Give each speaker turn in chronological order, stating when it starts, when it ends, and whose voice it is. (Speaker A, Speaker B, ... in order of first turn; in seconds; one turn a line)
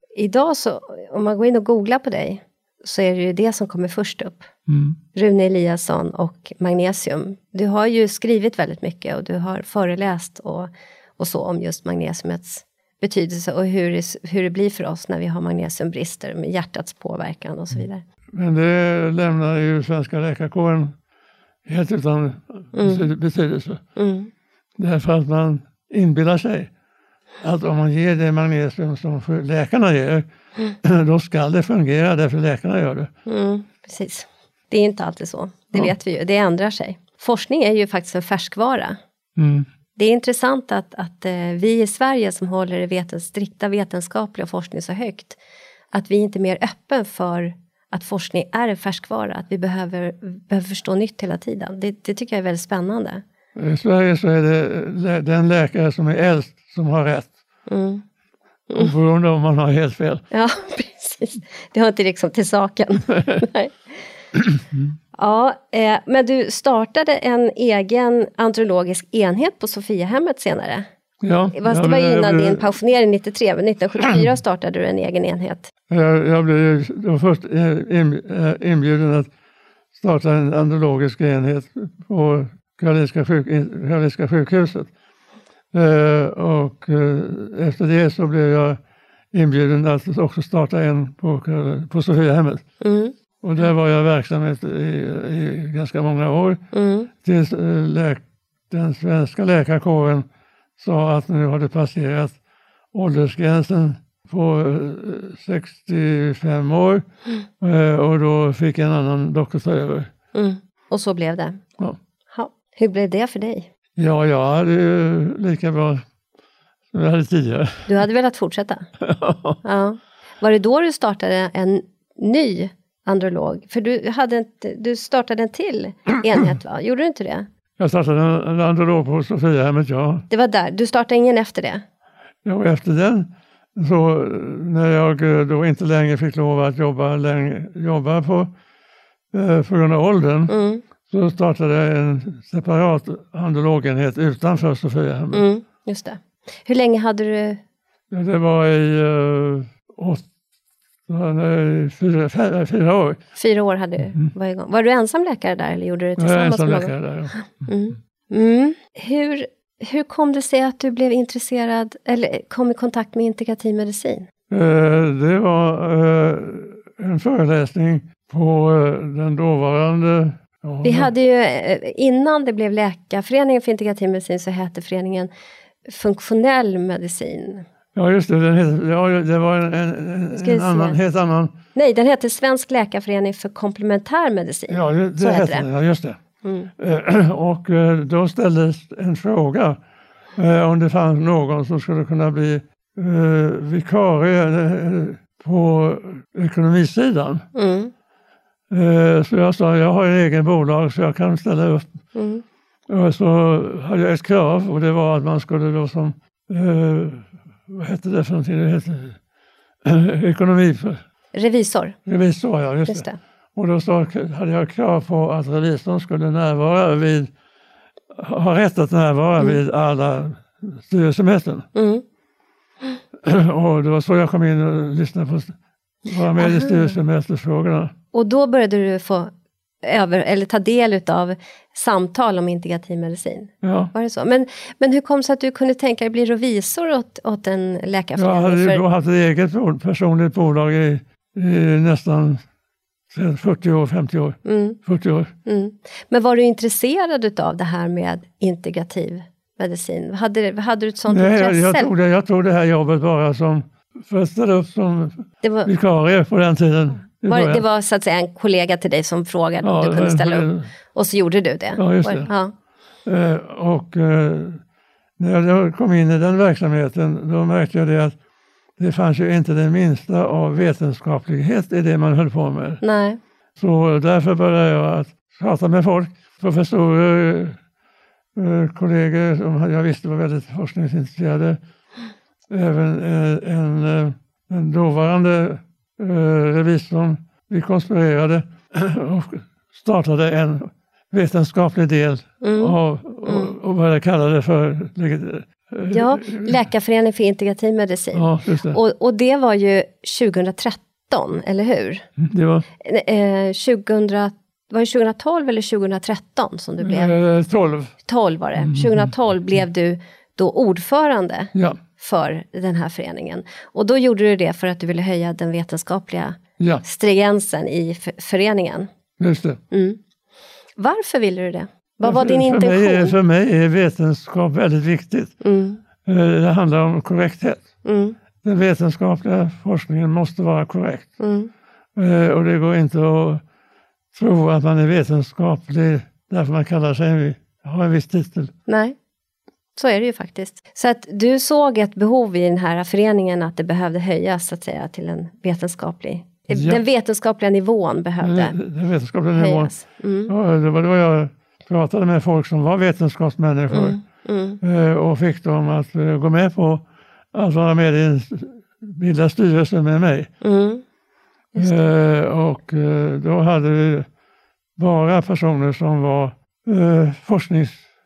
Speaker A: 0.2-4.5
Speaker B: 4.7-5.0
Speaker A: 5.1-18.0
Speaker B: 18.3-20.9
Speaker B: 21.6-23.8
Speaker A: 22.7-23.1
Speaker A: 24.0-24.3
Speaker B: 24.8-26.7
Speaker B: 27.4-30.2
Speaker B: 30.8-33.1
Speaker A: 33.3-39.0
Speaker B: 39.4-39.7
Speaker A: 40.0-45.4
Speaker A: 45.9-53.2
Speaker B: 53.5-57.3
Speaker A: 57.7-58.0
Speaker B: 58.7-60.2
Speaker A: 60.3-63.8
Speaker B: 64.3-64.9
Speaker A: 65.2-70.9
Speaker B: 71.2-72.7
Speaker A: 71.5-75.7
Speaker B: 75.9-79.3
Speaker B: 80.0-84.9
Speaker B: 85.7-88.8
Speaker B: 89.3-92.7
Speaker A: 92.8-93.1
Speaker B: 93.4-96.6
Speaker A: 96.7-97.1
Speaker B: 97.2-100.2
Speaker B: 100.8-102.4
Speaker B: 102.9-107.0
Speaker B: 107.6-110.1
Speaker A: 110.3-111.6
Speaker A: 112.3-113.7
Speaker B: 114.0-116.0
Speaker B: 116.9-117.9
Speaker A: 117.9-118.9
Speaker B: 119.0-119.6
Speaker A: 119.6-127.5
Speaker B: 127.8-130.3
Speaker A: 130.3-131.8
Speaker B: 132.4-138.5
Speaker B: 139.3-140.5
Speaker A: 140.5-140.8
Speaker B: 141.1-145.4
Speaker A: 145.3-147.6
Speaker B: 148.1-150.3
Speaker B: 151.1-153.2
Speaker A: 153.4-164.3
Speaker B: 156.2-157.4
Speaker B: 164.5-171.1
Speaker A: 170.8-175.3
Speaker A: 175.9-177.7
Speaker B: 177.9-181.6
Speaker A: 180.4-181.0
Speaker A: 181.8-185.7
Speaker B: 184.7-186.2
Speaker A: 186.4-186.7
Speaker B: 186.8-189.8
Speaker B: 190.4-197.5
Speaker A: 197.5-197.9
Speaker B: 198.7-201.9
Speaker A: 202.1-202.4
Speaker B: 202.9-209.2
Speaker B: 209.8-211.0
Speaker A: 211.3-212.0
Speaker B: 212.1-217.3
Speaker A: 212.9-213.2
Speaker B: 218.1-221.7
Speaker A: 221.8-222.0
Speaker B: 223.2-225.6
Speaker B: 226.1-227.9
Speaker A: 226.4-227.0
Speaker A: 228.1-229.3
Speaker A: 229.8-238.8
Speaker B: 233.6-233.9
Speaker B: 238.2-242.4
Speaker B: 243.1-245.3
Speaker A: 244.4-244.8
Speaker A: 245.5-251.9
Speaker B: 251.1-257.6
Speaker A: 255.4-255.7
Speaker A: 257.3-262.5
Speaker B: 259.6-260.7
Speaker B: 261.8-262.3
Speaker B: 263.1-264.6
Speaker B: 265.2-268.2
Speaker B: 268.8-272.8
Speaker A: 272.8-273.2
Speaker B: 273.6-277.6
Speaker B: 278.4-281.6
Speaker B: 282.5-296.7
Speaker A: 292.4-293.5
Speaker A: 295.9-302.1
Speaker B: 298.1-298.8
Speaker B: 302.2-302.7
Speaker A: 302.8-307.1
Speaker B: 306.8-307.9
Speaker A: 308.1-318.9
Speaker B: 308.6-309.1
Speaker B: 311.5-311.8
Speaker B: 319.2-319.6
Speaker A: 319.7-320.0
Speaker A: 320.8-323.1
Speaker B: 322.0-325.4
Speaker A: 325.4-325.8
Speaker B: 326.0-327.7
Speaker A: 327.8-328.2
Speaker B: 328.4-331.2
Speaker A: 331.2-331.5
Speaker B: 332.0-333.4
Speaker B: 334.1-338.5
Speaker A: 338.7-339.0
Speaker A: 339.8-348.6
Speaker B: 346.5-346.8
Speaker B: 348.2-349.7
Speaker A: 349.4-350.3
Speaker B: 350.3-354.0
Speaker A: 353.7-354.6
Speaker B: 354.6-360.3
Speaker A: 360.4-360.8
Speaker A: 361.5-361.9
Speaker B: 361.6-364.1
Speaker B: 364.8-367.9